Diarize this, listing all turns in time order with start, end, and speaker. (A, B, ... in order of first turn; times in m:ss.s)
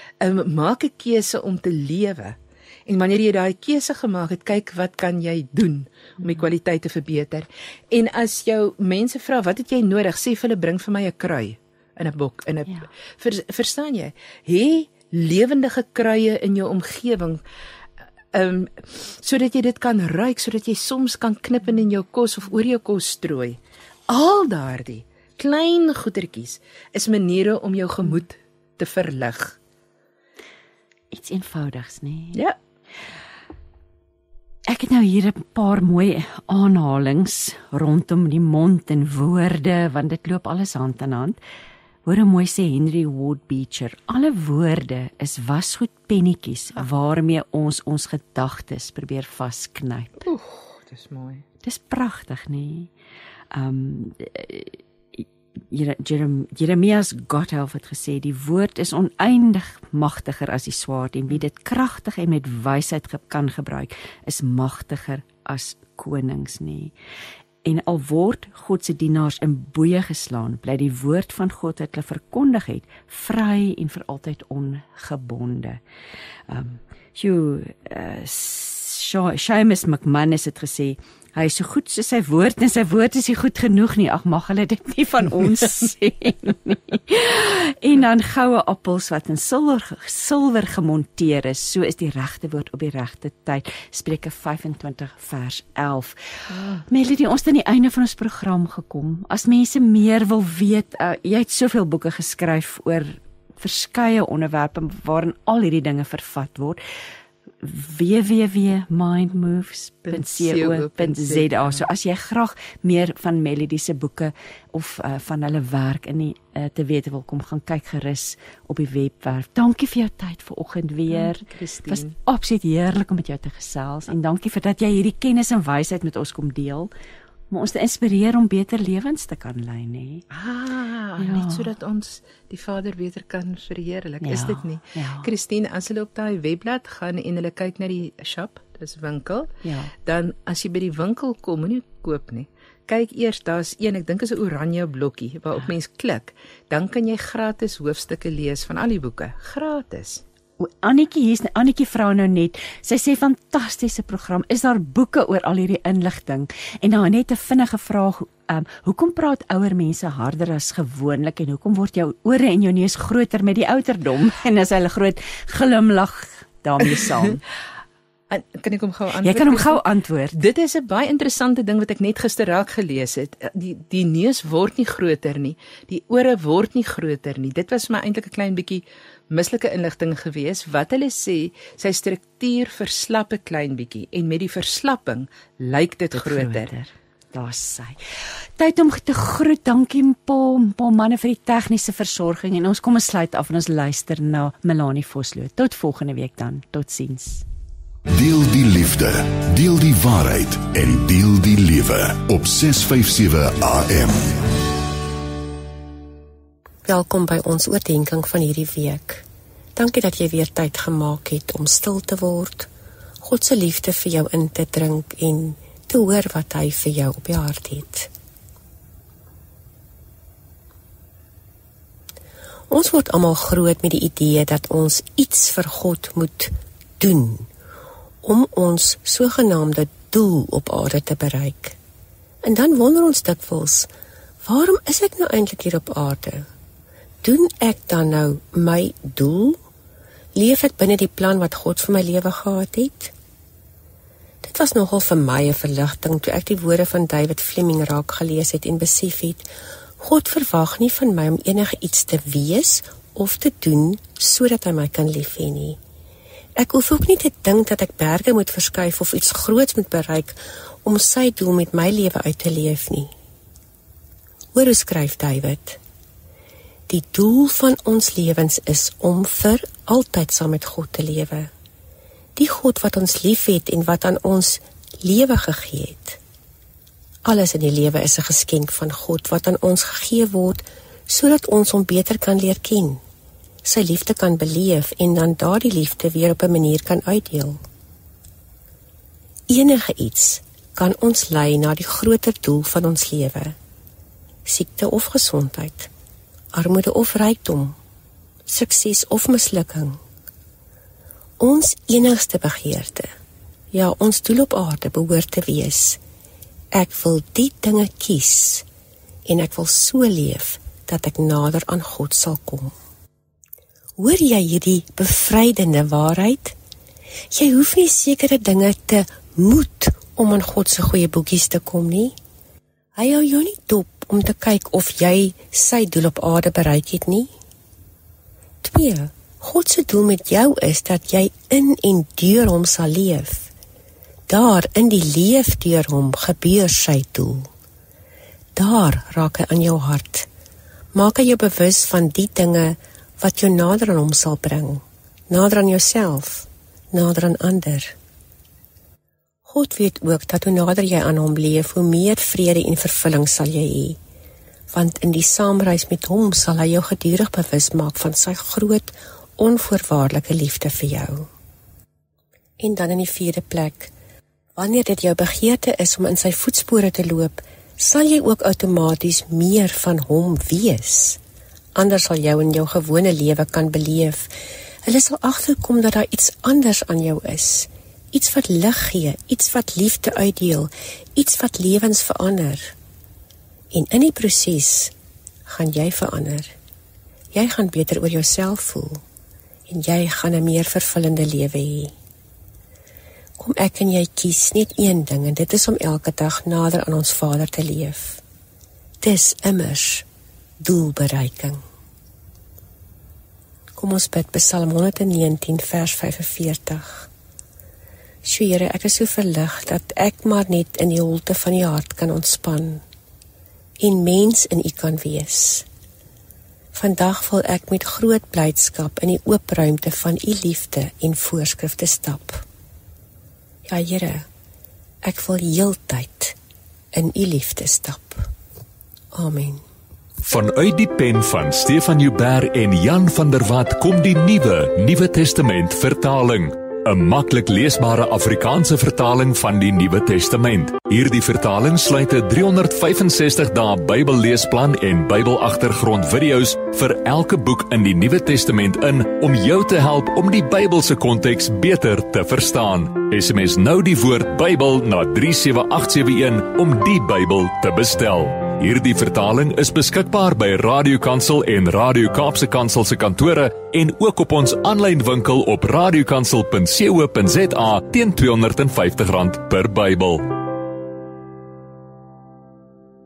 0:00.2-0:17.4 A
0:18.3-0:29.6 A
0:31.1-0:32.4 B
0:34.7-0:41.4 B
0:42.0-0:50.2 B
0:50.2-0:51.4 A
0:51.6-0:52.9 B
0:53.5-1:06.9 B
1:07.6-1:15.8 B
1:16.5-1:36.1 B
1:36.5-1:36.8 A
1:36.9-1:46.8 B
1:47.6-2:06.9 B
1:50.1-1:51.8 A
2:01.1-2:02.1 A
2:07.5-2:10.2 B
2:10.3-2:30.2 A
2:11.2-2:11.6 B
2:14.2-2:15.3 B
2:19.6-2:19.9 B
2:30.6-2:47.4 B
2:48.3-2:49.8 A
2:49.2-2:50.4 B
2:50.3-3:06.7 A
3:06.2-3:08.0 B
3:08.6-3:17.4 B
3:18.1-3:24.5 C
3:26.8-3:29.2 D
3:29.7-3:32.7 D
3:33.2-3:38.1 D
3:42.7-3:47.5 D
3:48.2-3:51.8 D
3:52.4-3:53.9 D
3:54.4-3:56.5 D
3:57.2-3:59.6 D
4:00.3-4:03.1 D
4:04.4-4:09.5 D
4:10.0-4:15.8 D
4:16.6-4:23.1 D
4:24.5-4:25.8 D
4:26.9-4:31.5 D
4:32.4-4:36.2 D
4:37.2-4:43.0 D
4:43.6-4:47.6 D
4:49.5-4:53.6 D
4:54.4-4:55.9 D
4:56.5-4:57.8 D
4:58.5-5:00.0 D
5:01.4-5:03.1 D
5:03.7-5:06.0 D
5:06.7-5:08.6 D
5:09.2-5:12.7 D
5:14.0-5:16.6 D
5:17.3-5:22.1 D
5:23.0-5:27.3 D
5:28.6-5:33.5 D
5:34.3-5:37.5 D
5:38.5-5:40.3 D
5:40.9-5:48.0 D
5:49.4-5:54.0 D
5:54.7-6:01.3 D
6:02.6-6:03.9 D
6:04.6-6:11.2 D
6:11.7-6:14.3 D
6:14.8-6:22.7 D
6:23.7-6:24.9 D
6:25.4-6:26.5 D
6:27.3-6:29.0 D
6:29.7-6:31.9 D
6:33.4-6:38.2 D
6:39.0-6:40.0 D
6:40.6-6:41.6 D
6:43.8-6:47.1 D
6:48.2-6:52.8 D
6:53.8-6:55.6 D
6:56.7-7:02.4 D
7:03.7-7:04.3 D
7:05.0-7:06.4 D
7:06.9-7:08.3 D
7:09.1-7:09.6 D
7:10.2-7:50.3 E